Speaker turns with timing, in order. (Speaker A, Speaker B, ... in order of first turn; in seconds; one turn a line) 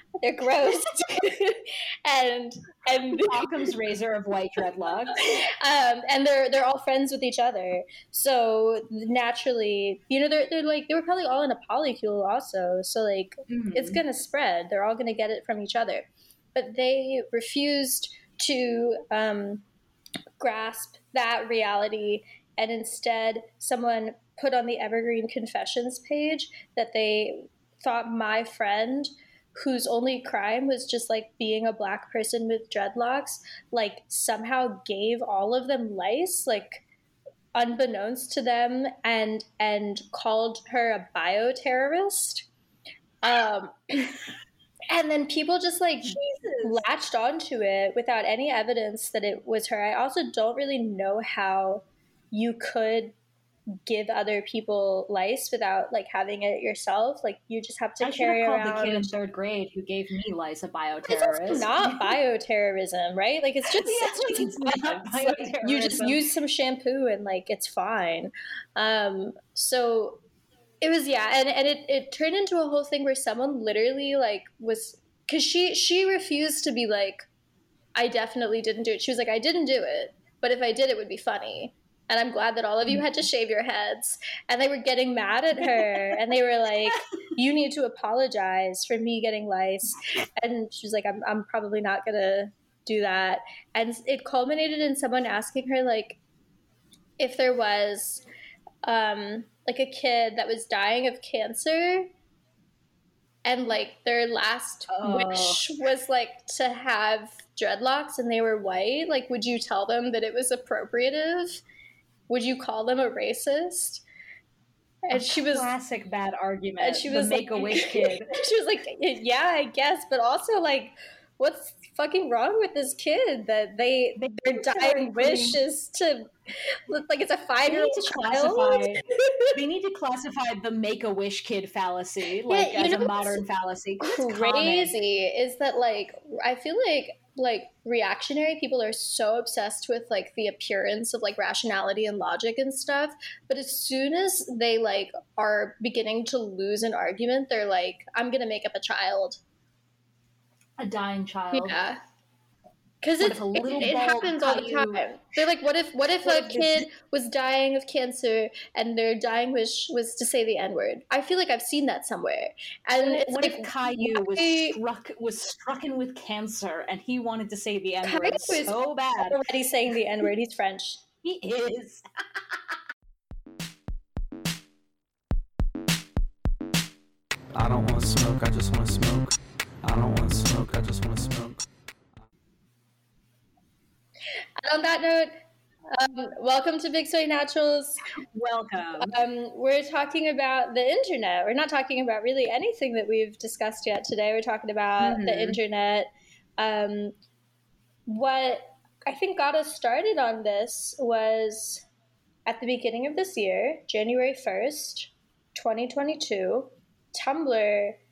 Speaker A: 0.2-3.5
Speaker B: 3.1-5.4
Speaker A: 5.2-19.6
Speaker B: 13.5-14.0
Speaker A: 20.4-36.8
Speaker A: 37.5-42.5
Speaker A: 43.2-44.2
Speaker A: 44.9-53.2
Speaker B: 46.1-46.8
Speaker A: 53.9-59.2
Speaker B: 58.0-62.2
Speaker A: 61.1-70.2
Speaker B: 63.7-66.2
Speaker A: 70.8-77.3
Speaker A: 78.0-96.2
Speaker B: 85.6-86.0
Speaker A: 97.2-98.2
Speaker A: 98.8-102.1
Speaker A: 103.5-111.6
Speaker B: 104.9-105.6
Speaker A: 112.3-114.0
Speaker A: 115.0-115.7
Speaker B: 115.1-118.3
Speaker A: 116.8-129.5
Speaker B: 124.2-125.6
Speaker B: 127.7-134.9
Speaker A: 132.5-133.4
Speaker A: 134.0-149.4
Speaker B: 150.8-151.8
Speaker A: 151.5-152.0
Speaker A: 153.0-164.8
Speaker B: 153.2-155.0
Speaker B: 156.2-156.9
Speaker B: 163.0-169.4
Speaker A: 168.1-171.0
Speaker B: 171.2-172.6
Speaker C: 177.5-181.7
Speaker A: 184.6-185.4
Speaker A: 185.9-188.0
Speaker B: 188.3-189.2
Speaker A: 189.0-197.2
Speaker B: 195.0-195.6
Speaker A: 198.1-201.8
Speaker A: 202.5-208.0